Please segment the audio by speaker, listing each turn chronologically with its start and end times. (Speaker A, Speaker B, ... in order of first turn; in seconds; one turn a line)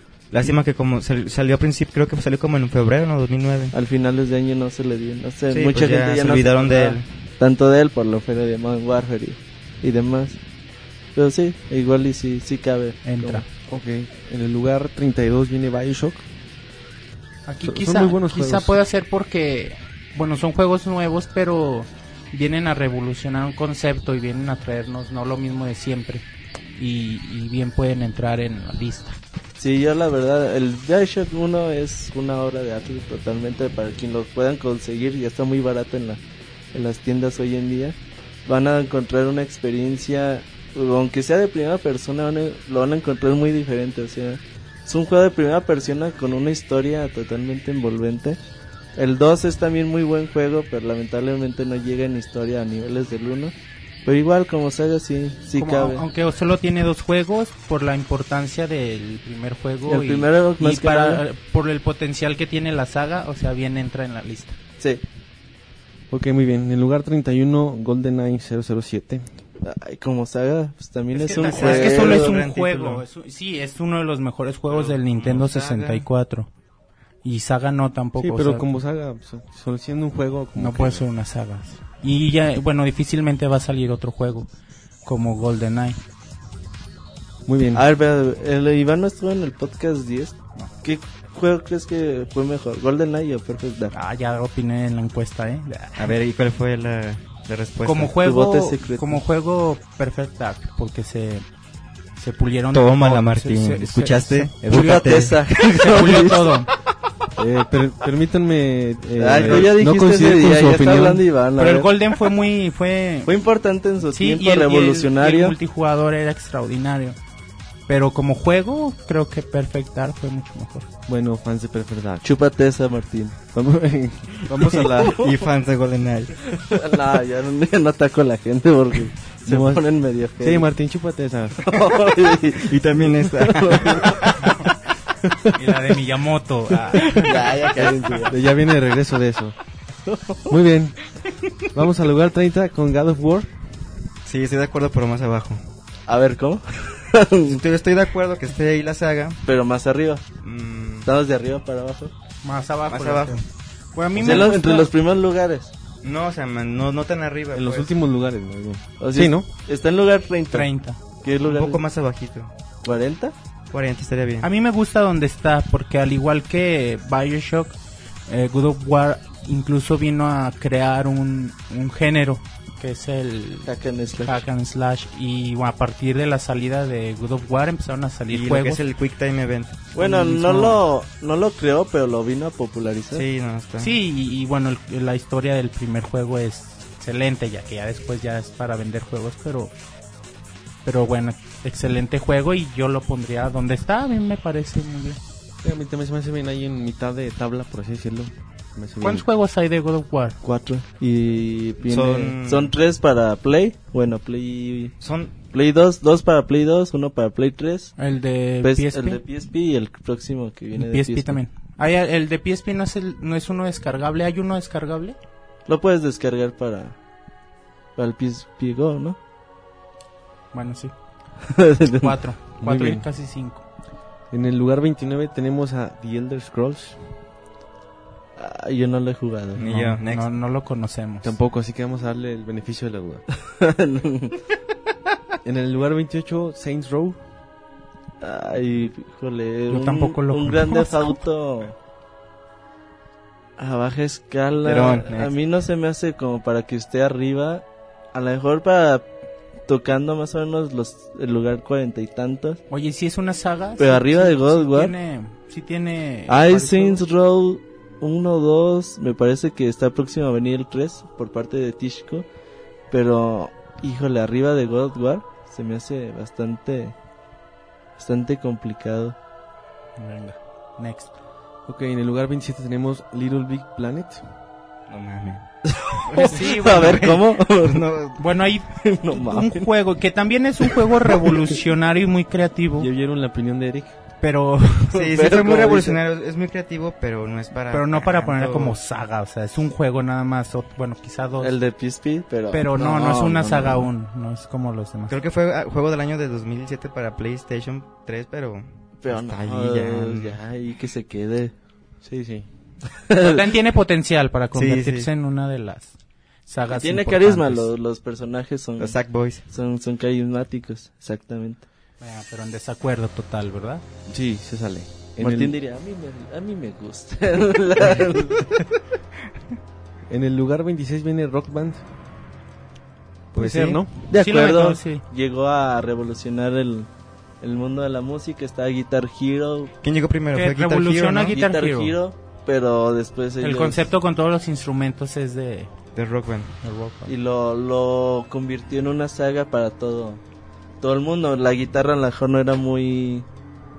Speaker A: 0.3-3.8
Speaker B: 3.7-10.4
Speaker A: 5.5-7.1
Speaker B: 11.2-13.5
Speaker C: 13.1-13.4
Speaker D: 13.7-16.2
Speaker C: 17.5-26.2
Speaker D: 17.6-18.8
Speaker C: 26.8-29.2
Speaker B: 29.6-36.2
Speaker B: 36.7-48.4
Speaker B: 49.0-53.5
Speaker B: 54.0-56.0
Speaker C: 55.6-64.6
Speaker B: 59.9-61.2
Speaker D: 66.1-69.3
Speaker B: 69.6-72.3
Speaker A: 71.1-73.0
Speaker C: 71.2-76.5
Speaker A: 74.7-76.1
Speaker C: 77.2-78.7
Speaker D: 78.2-81.0
Speaker C: 80.6-84.5
Speaker C: 85.0-86.0
Speaker D: 87.5-87.8
Speaker B: 87.7-93.9
Speaker C: 93.9-96.2
Speaker A: 96.0-98.1
Speaker C: 97.8-101.5
Speaker B: 98.2-99.2
Speaker C: 102.2-106.7
Speaker A: 102.7-106.3
Speaker B: 104.7-106.5
Speaker D: 107.4-111.2
Speaker B: 109.2-111.9
Speaker A: 109.5-109.7
Speaker C: 111.6-113.3
Speaker B: 113.3-115.6
Speaker C: 114.1-117.2
Speaker C: 117.9-120.9
Speaker D: 121.1-122.3
Speaker B: 122.2-123.4
Speaker D: 123.5-125.2
Speaker A: 124.5-126.5
Speaker B: 124.9-125.3
Speaker B: 126.5-130.7
Speaker D: 129.5-129.8
Speaker D: 130.4-131.7
Speaker B: 131.6-134.4
Speaker A: 132.5-134.5
Speaker C: 135.5-137.3
Speaker A: 137.0-138.2
Speaker B: 137.1-138.4
Speaker D: 138.3-139.6
Speaker B: 140.1-140.5
Speaker D: 140.5-141.0
Speaker D: 141.7-143.5
Speaker A: 144.2-145.6
Speaker B: 146.1-147.6
Speaker A: 147.5-149.4
Speaker B: 149.4-150.2
Speaker A: 150.4-151.1
Speaker B: 151.1-152.1
Speaker C: 152.4-154.9
Speaker A: 152.9-153.4
Speaker A: 154.2-154.5
Speaker B: 154.2-155.7
Speaker A: 156.0-157.9
Speaker D: 157.5-159.5
Speaker B: 159.0-160.7
Speaker C: 160.5-161.0
Speaker B: 161.2-161.8
Speaker A: 161.4-162.5
Speaker B: 162.8-163.3
Speaker A: 163.7-164.5
Speaker C: 164.4-167.8
Speaker C: 168.3-178.8
Speaker B: 173.7-174.4
Speaker A: 178.3-179.9
Speaker B: 179.9-183.2
Speaker C: 180.0-180.8
Speaker A: 183.1-183.9
Speaker C: 183.8-189.7
Speaker C: 190.8-195.2
Speaker D: 195.6-199.3
Speaker C: 199.0-200.4
Speaker B: 200.4-204.9
Speaker A: 201.8-202.7
Speaker A: 205.0-205.3
Speaker B: 205.5-207.9
Speaker C: 208.0-209.2
Speaker B: 208.6-211.4
Speaker C: 210.8-215.2
Speaker B: 215.7-217.0
Speaker B: 218.0-219.2
Speaker C: 220.5-220.9
Speaker B: 221.5-222.2
Speaker C: 222.0-223.6
Speaker D: 222.6-223.1
Speaker D: 224.3-227.0
Speaker B: 228.4-229.6
Speaker A: 229.6-230.3
Speaker C: 229.7-231.4
Speaker D: 231.2-233.2
Speaker B: 233.5-234.4
Speaker D: 235.4-237.2
Speaker B: 238.2-241.8
Speaker C: 239.7-241.2
Speaker B: 243.6-249.1
Speaker A: 244.6-245.3
Speaker B: 249.7-252.6
Speaker C: 252.7-257.0
Speaker B: 253.8-254.9
Speaker B: 256.3-262.3
Speaker B: 262.9-266.9
Speaker B: 268.0-269.2
Speaker C: 270.0-271.1
Speaker D: 271.7-274.2
Speaker A: 274.9-275.4
Speaker B: 275.7-277.9
Speaker C: 276.1-277.1
Speaker A: 276.1-278.2
Speaker C: 278.2-282.9
Speaker B: 278.8-279.7
Speaker D: 282.8-283.9
Speaker C: 284.2-284.9
Speaker B: 284.9-286.0
Speaker A: 284.9-288.8
Speaker C: 287.7-291.6
Speaker B: 291.4-293.9
Speaker C: 292.5-295.2
Speaker A: 295.1-300.4
Speaker B: 299.0-301.5
Speaker D: 302.0-302.5
Speaker B: 303.1-303.4
Speaker C: 303.2-305.9
Speaker A: 304.5-305.1
Speaker C: 306.5-307.7
Speaker B: 306.7-309.0
Speaker A: 308.8-309.4
Speaker B: 309.5-311.6
Speaker C: 312.0-313.8
Speaker D: 314.1-315.6
Speaker B: 315.2-318.6
Speaker D: 320.1-321.8
Speaker D: 323.3-323.9
Speaker A: 323.4-323.8
Speaker B: 324.1-326.9
Speaker C: 324.1-325.0
Speaker B: 327.4-329.7
Speaker A: 329.8-331.4
Speaker C: 330.3-331.9
Speaker B: 331.3-333.8
Speaker C: 333.4-335.7
Speaker A: 336.0-336.6
Speaker C: 336.6-337.1
Speaker B: 337.1-340.2
Speaker B: 340.8-343.3